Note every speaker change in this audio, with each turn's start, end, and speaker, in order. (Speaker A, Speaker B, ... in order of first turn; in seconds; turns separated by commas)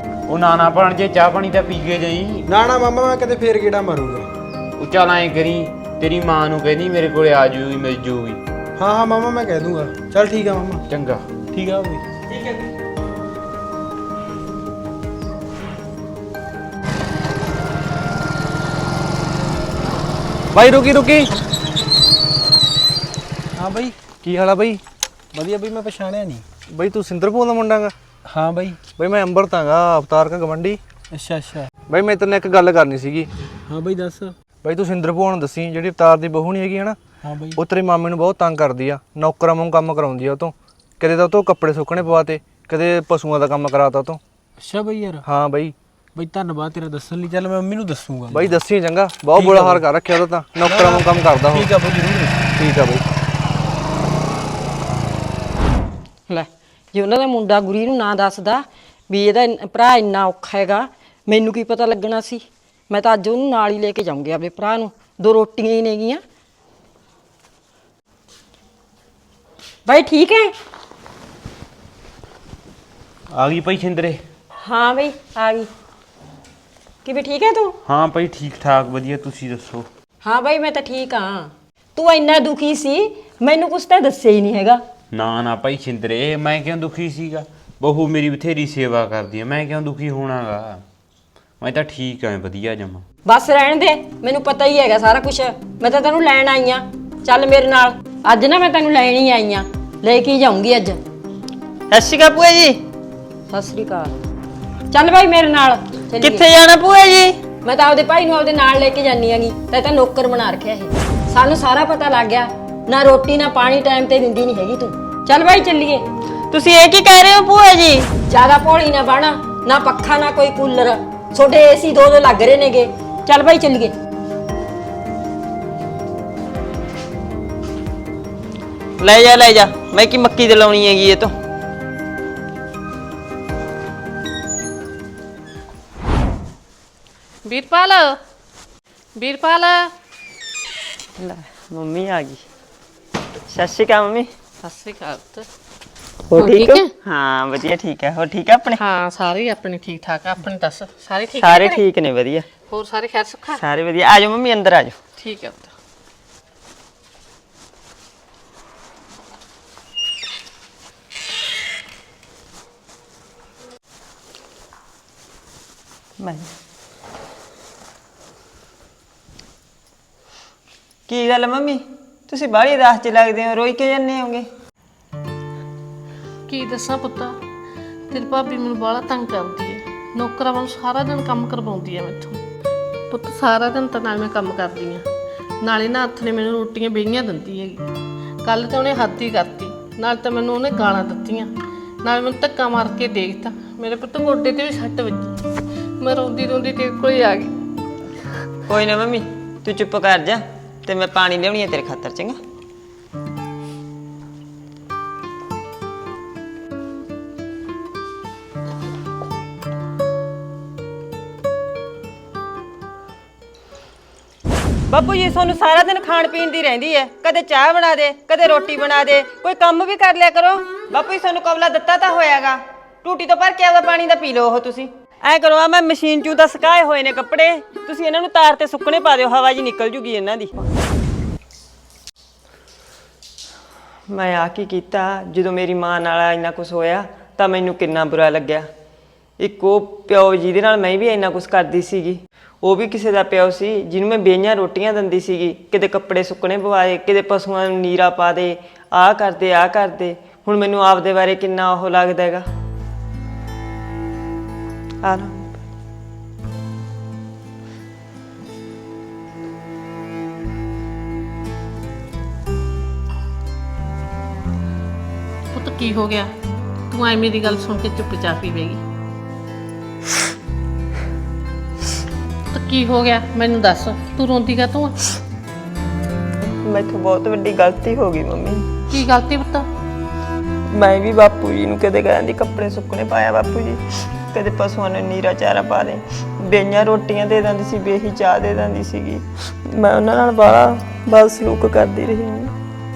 Speaker A: 0.3-2.5, Speaker B: 2.5-4.3, Speaker A: 4.8-8.4, Speaker B: 8.8-10.8, Speaker A: 10.9-11.2, Speaker B: 11.5-12.0, Speaker C: 20.5-21.3, Speaker B: 23.6-23.9, Speaker C: 24.2-24.8, Speaker B: 25.3-26.4, Speaker C: 26.7-27.9, Speaker B: 28.3-28.8, Speaker C: 29.0-30.8, Speaker B: 31.1-31.7, Speaker C: 31.9-33.3, Speaker B: 33.7-34.3, Speaker C: 34.6-37.0, Speaker B: 37.2-37.6, Speaker C: 37.5-44.2, Speaker B: 44.6-45.2, Speaker C: 45.2-45.7, Speaker B: 46.1-48.6, Speaker C: 48.3-51.7, Speaker B: 49.3-49.8, Speaker B: 50.6-52.5, Speaker C: 52.5-53.0, Speaker D: 56.3-66.2, Speaker D: 69.8-70.5, Speaker A: 73.3-74.2, Speaker D: 74.6-75.7, Speaker D: 77.0-77.8, Speaker A: 77.8-79.9, Speaker D: 80.2-84.8, Speaker A: 85.1-90.8, Speaker A: 91.6-93.0, Speaker D: 93.2-101.0, Speaker E: 101.9-102.8, Speaker D: 103.5-104.1, Speaker D: 104.9-106.4, Speaker E: 106.2-107.4, Speaker D: 107.6-116.0, Speaker E: 116.5-118.1, Speaker D: 118.3-123.9, Speaker E: 129.0-131.3, Speaker F: 137.4-138.2, Speaker F: 139.2-139.9, Speaker E: 141.2-142.4, Speaker E: 143.5-144.3, Speaker F: 144.6-145.5, Speaker E: 146.3-148.8, Speaker F: 146.3-146.9, Speaker F: 148.8-151.8, Speaker E: 151.4-152.5, Speaker F: 152.7-153.6, Speaker E: 153.5-155.0, Speaker F: 155.2-155.7, Speaker E: 166.2-166.5, Speaker E: 171.1-174.5, Speaker F: 176.5-177.3, Speaker F: 178.1-182.4, Speaker F: 183.1-185.0, Speaker F: 185.6-187.8, Speaker F: 188.4-191.5, Speaker F: 192.0-195.3, Speaker F: 196.0-197.5, Speaker E: 198.7-202.4, Speaker E: 214.9-230.6, Speaker E: 234.1-238.7, Speaker E: 239.4-252.4, Speaker E: 255.0-255.6, Speaker F: 265.5-266.3, Speaker F: 266.9-268.8, Speaker F: 272.5-275.1, Speaker E: 276.6-278.7, Speaker F: 278.9-279.6, Speaker E: 280.7-292.5